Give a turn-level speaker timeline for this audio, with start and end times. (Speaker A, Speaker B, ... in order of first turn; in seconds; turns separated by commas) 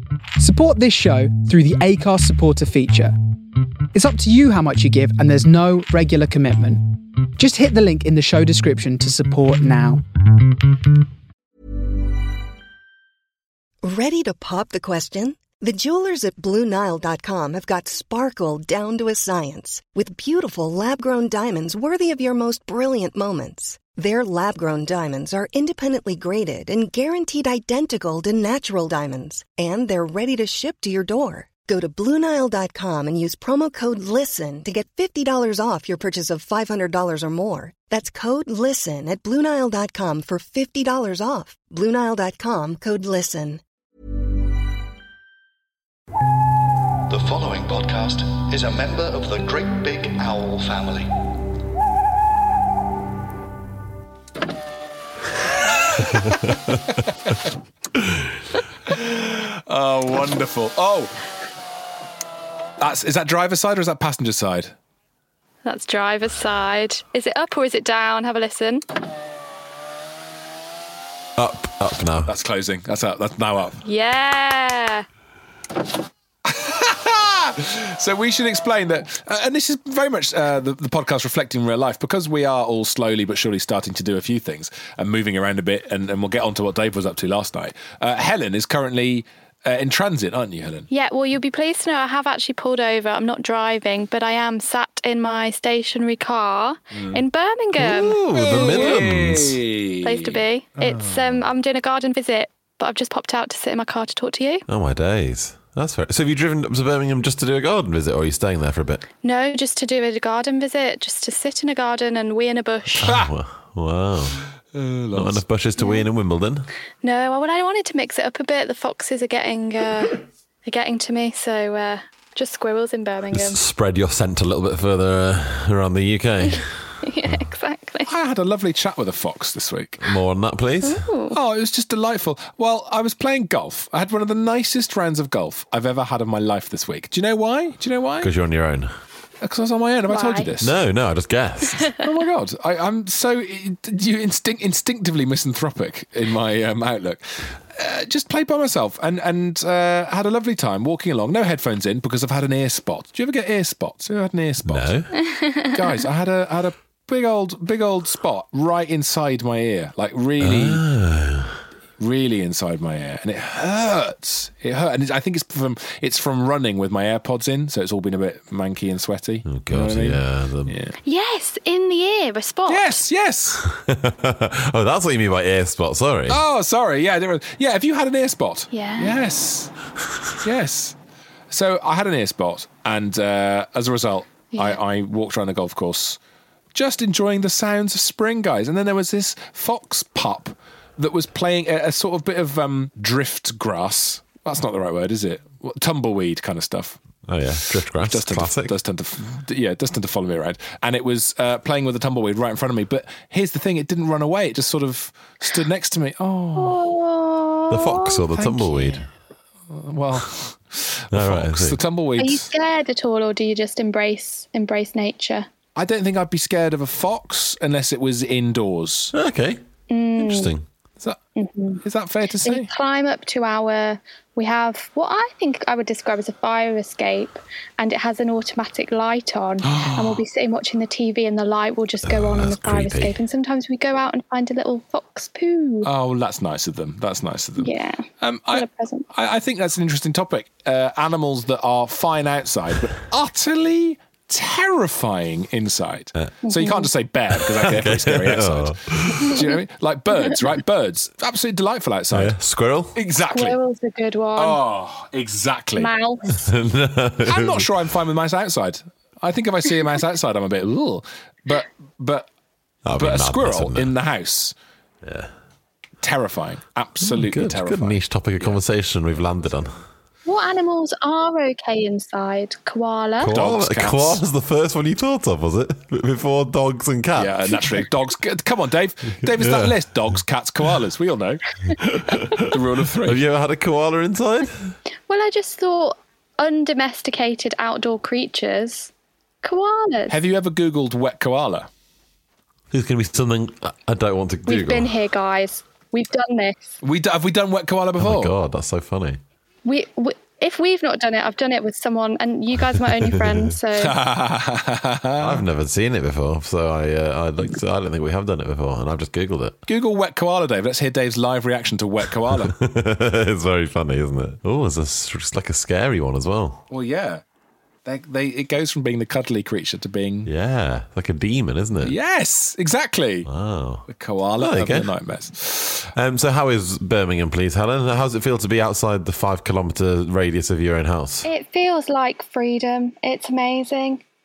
Speaker A: 0.4-3.1, Speaker A: 3.9-6.8, Speaker A: 7.4-10.0, Speaker B: 13.8-43.6, Speaker C: 47.1-51.1, Speaker D: 56.0-56.5, Speaker D: 58.9-61.2, Speaker D: 62.8-64.7, Speaker E: 65.6-68.8, Speaker F: 71.4-72.3, Speaker D: 72.3-73.8, Speaker E: 73.8-75.0, Speaker D: 76.5-90.9, Speaker E: 90.9-98.2, Speaker D: 96.9-97.2, Speaker D: 97.8-101.3, Speaker F: 98.3-99.6, Speaker E: 100.0-104.6, Speaker F: 104.7-109.0, Speaker E: 109.2-113.1, Speaker F: 113.0-114.4, Speaker D: 113.0-113.3, Speaker D: 114.6-115.4, Speaker F: 115.1-116.7, Speaker E: 117.0-123.6, Speaker F: 123.3-127.4, Speaker E: 127.1-128.1, Speaker D: 128.1-130.1, Speaker F: 130.0-131.0, Speaker E: 130.8-131.4, Speaker D: 131.3-138.3, Speaker F: 138.2-138.9, Speaker D: 139.4-140.7, Speaker E: 140.1-140.5, Speaker F: 140.6-141.9, Speaker D: 142.0-155.2, Speaker F: 154.7-155.1, Speaker E: 155.3-155.7, Speaker D: 155.7-160.8, Speaker F: 160.4-161.6, Speaker D: 162.0-170.9, Speaker F: 169.5-170.7, Speaker E: 171.0-173.0, Speaker D: 172.7-173.6, Speaker F: 173.7-176.4, Speaker D: 176.3-179.7, Speaker E: 178.7-179.2, Speaker D: 180.4-180.9, Speaker D: 181.5-186.2, Speaker E: 184.5-184.8, Speaker D: 186.7-197.0, Speaker F: 197.3-198.7, Speaker D: 198.0-206.8, Speaker E: 206.6-209.0, Speaker F: 207.7-209.0, Speaker D: 209.7-212.4, Speaker F: 211.1-211.8, Speaker E: 212.2-215.5, Speaker D: 215.8-219.1, Speaker F: 219.1-219.6, Speaker E: 219.9-220.5, Speaker F: 220.2-220.6, Speaker E: 221.3-221.8, Speaker D: 221.8-222.7, Speaker E: 222.4-235.9, Speaker D: 229.6-230.2, Speaker F: 232.1-233.2, Speaker D: 235.8-252.3, Speaker E: 237.6-239.1, Speaker E: 246.4-246.9, Speaker F: 247.5-249.4, Speaker F: 252.1-252.9, Speaker D: 252.9-253.6, Speaker E: 253.3-254.6, Speaker D: 254.3-255.9, Speaker E: 255.8-256.4, Speaker F: 256.4-257.7, Speaker D: 257.2-262.3, Speaker F: 262.9-263.9, Speaker D: 263.0-264.5, Speaker F: 265.0-265.3, Speaker D: 266.0-268.6, Speaker F: 267.0-269.8, Speaker E: 270.2-273.3, Speaker F: 273.2-277.7, Speaker D: 273.3-274.2, Speaker D: 277.1-281.4, Speaker F: 279.4-279.7, Speaker F: 281.8-282.4, Speaker D: 282.4-283.2, Speaker F: 283.0-284.7, Speaker E: 285.1-288.9, Speaker E: 289.4-290.2, Speaker D: 290.1-291.7, Speaker F: 292.7-294.9, Speaker E: 294.4-296.7, Speaker D: 296.8-298.3, Speaker F: 298.0-299.2, Speaker E: 299.6-304.0, Speaker D: 303.8-305.4, Speaker F: 305.2-309.6, Speaker D: 309.7-312.5, Speaker F: 312.4-316.6, Speaker D: 316.7-317.2, Speaker D: 317.8-320.3, Speaker F: 320.2-321.9, Speaker D: 321.8-323.3, Speaker F: 323.3-324.9, Speaker D: 323.9-325.9, Speaker F: 325.9-331.2, Speaker E: 331.2-334.0